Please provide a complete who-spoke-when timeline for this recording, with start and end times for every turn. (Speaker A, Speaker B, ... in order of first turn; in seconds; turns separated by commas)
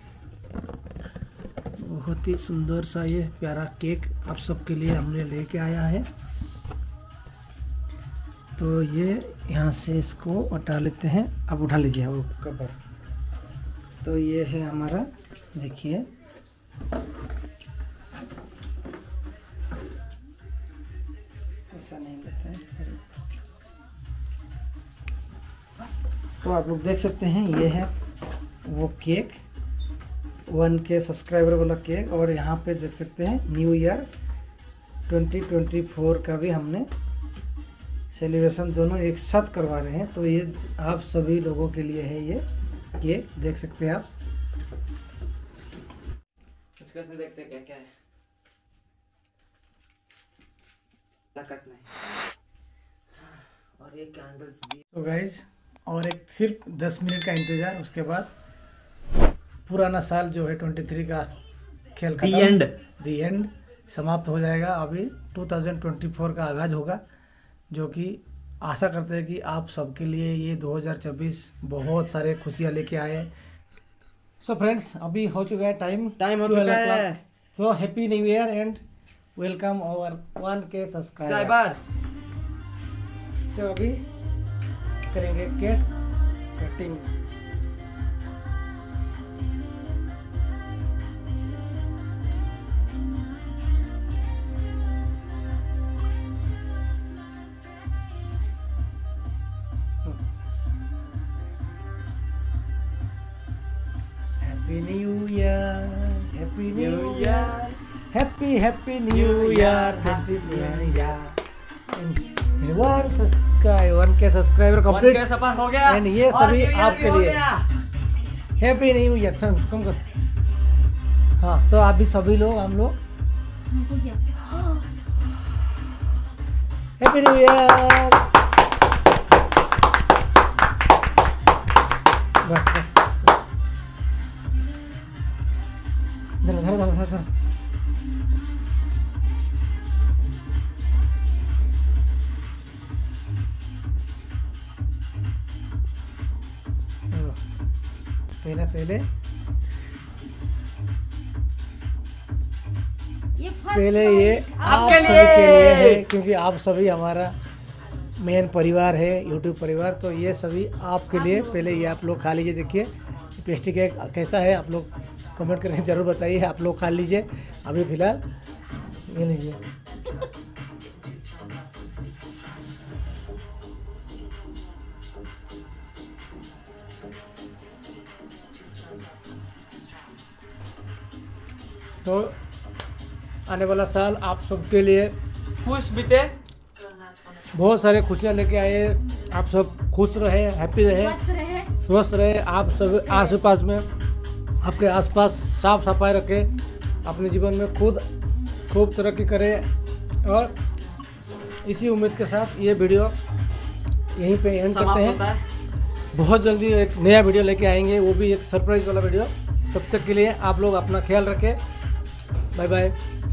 Speaker A: 1.8-6.1, Speaker A: 8.6-12.7, Speaker A: 14.0-16.1, Speaker A: 21.7-23.0, Speaker A: 26.4-27.9, Speaker A: 28.6-29.4, Speaker A: 30.5-34.1, Speaker A: 35.1-36.9, Speaker A: 38.1-42.4, Speaker A: 43.0-44.1, Speaker B: 46.8-47.9, Speaker B: 51.3-51.9, Speaker B: 53.2-54.8, Speaker A: 54.9-58.3, Speaker A: 59.7-61.3, Speaker A: 62.0-67.0, Speaker B: 62.2-62.7, Speaker A: 67.7-73.3, Speaker A: 74.4-78.8, Speaker B: 76.2-77.2, Speaker A: 79.3-81.6, Speaker B: 81.2-81.8, Speaker A: 83.5-84.1, Speaker A: 85.1-85.9, Speaker A: 86.5-87.1, Speaker A: 104.4-111.4, Speaker B: 106.7-107.8, Speaker B: 109.1-111.1, Speaker A: 111.9-117.4, Speaker B: 114.9-117.7, Speaker A: 118.6-120.0, Speaker A: 121.4-123.0, Speaker C: 123.7-124.8, Speaker A: 127.0-128.2, Speaker A: 132.4-133.4, Speaker A: 136.4-137.3, Speaker A: 147.1-147.4, Speaker A: 148.4-149.0, Speaker C: 153.4-155.8, Speaker A: 153.7-157.3, Speaker B: 154.6-156.0, Speaker A: 158.2-168.2, Speaker C: 161.1-161.9, Speaker A: 169.1-169.6, Speaker A: 182.0-182.3, Speaker A: 183.5-185.1, Speaker B: 185.6-186.3, Speaker A: 187.5-191.2, Speaker C: 190.9-191.7, Speaker A: 191.8-193.9, Speaker C: 192.9-193.4, Speaker A: 194.6-196.5, Speaker A: 197.0-198.0, Speaker A: 198.7-199.7, Speaker A: 200.2-200.5, Speaker A: 201.6-203.2, Speaker A: 204.1-205.2, Speaker B: 204.7-205.4, Speaker A: 206.1-211.6, Speaker A: 212.5-212.9